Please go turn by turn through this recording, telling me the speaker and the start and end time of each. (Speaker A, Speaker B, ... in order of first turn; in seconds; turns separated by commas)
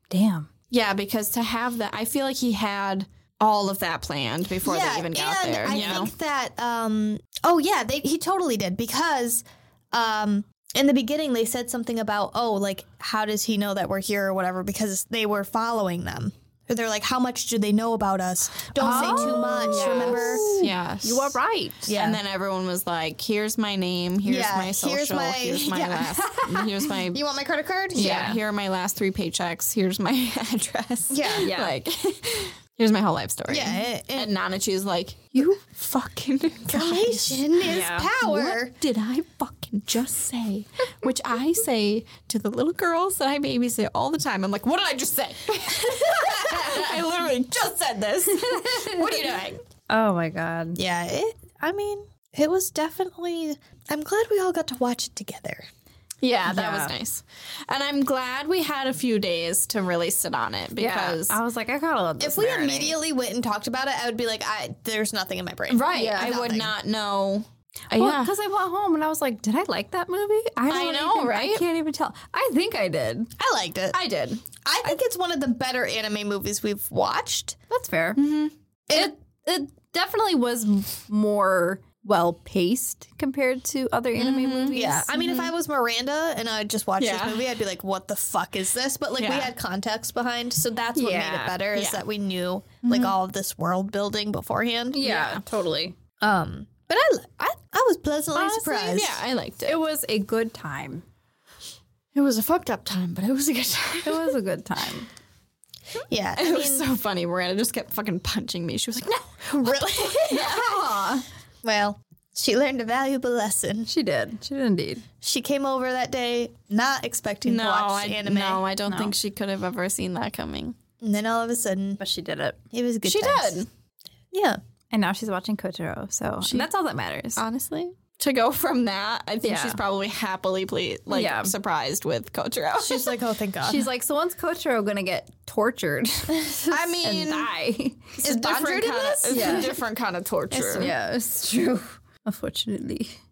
Speaker A: 0.1-0.5, Speaker B: 0.7-6.1, Speaker C: 4.6-20.5, Speaker A: 5.7-6.0, Speaker B: 18.8-21.4, Speaker A: 18.8-21.9, Speaker C: 21.9-22.2, Speaker B: 21.9-27.2, Speaker C: 24.3-26.1, Speaker A: 26.1-26.9, Speaker C: 27.1-28.3, Speaker A: 27.9-28.4, Speaker B: 27.9-49.6, Speaker C: 31.1-31.5, Speaker A: 31.4-31.8, Speaker C: 33.5-34.3, Speaker C: 36.7-38.7, Speaker A: 37.6-38.1, Speaker A: 48.5-49.1, Speaker A: 49.9-50.8, Speaker C: 50.8-55.7, Speaker B: 56.2-61.4, Speaker A: 56.5-56.9, Speaker A: 60.8-63.0, Speaker C: 62.2-66.7, Speaker B: 65.7-68.3, Speaker A: 65.9-66.3, Speaker A: 67.9-73.3, Speaker B: 70.7-71.7, Speaker C: 73.4-74.0, Speaker B: 73.9-74.4, Speaker C: 74.7-77.6, Speaker A: 77.7-78.2, Speaker B: 78.2-78.5, Speaker C: 78.9-79.1, Speaker A: 78.9-85.1, Speaker B: 84.2-85.5, Speaker C: 84.7-95.0, Speaker B: 87.0-87.5, Speaker B: 89.2-89.5, Speaker A: 91.0-91.6, Speaker B: 91.7-92.0, Speaker B: 92.8-93.2, Speaker A: 94.9-96.0, Speaker B: 95.0-95.4, Speaker C: 96.2-99.2, Speaker B: 98.3-99.8, Speaker A: 99.7-101.0, Speaker B: 102.1-104.4, Speaker A: 104.0-105.1, Speaker C: 106.1-106.8, Speaker B: 106.4-110.7, Speaker C: 109.5-110.7, Speaker A: 110.3-111.2, Speaker C: 111.6-113.9, Speaker A: 113.9-115.0, Speaker C: 115.2-118.6, Speaker B: 117.4-120.8, Speaker A: 118.9-119.2, Speaker C: 121.0-122.0, Speaker A: 122.0-122.6, Speaker C: 122.7-123.7, Speaker B: 123.0-123.7, Speaker C: 124.3-124.6, Speaker A: 124.9-127.4, Speaker B: 126.4-126.7, Speaker B: 127.4-133.2, Speaker A: 129.4-129.8, Speaker A: 131.1-131.5, Speaker C: 132.8-133.9, Speaker A: 133.6-138.2, Speaker B: 136.7-137.5, Speaker B: 138.2-140.9, Speaker C: 138.2-139.8, Speaker A: 139.3-139.7, Speaker C: 140.5-140.9, Speaker A: 140.7-143.1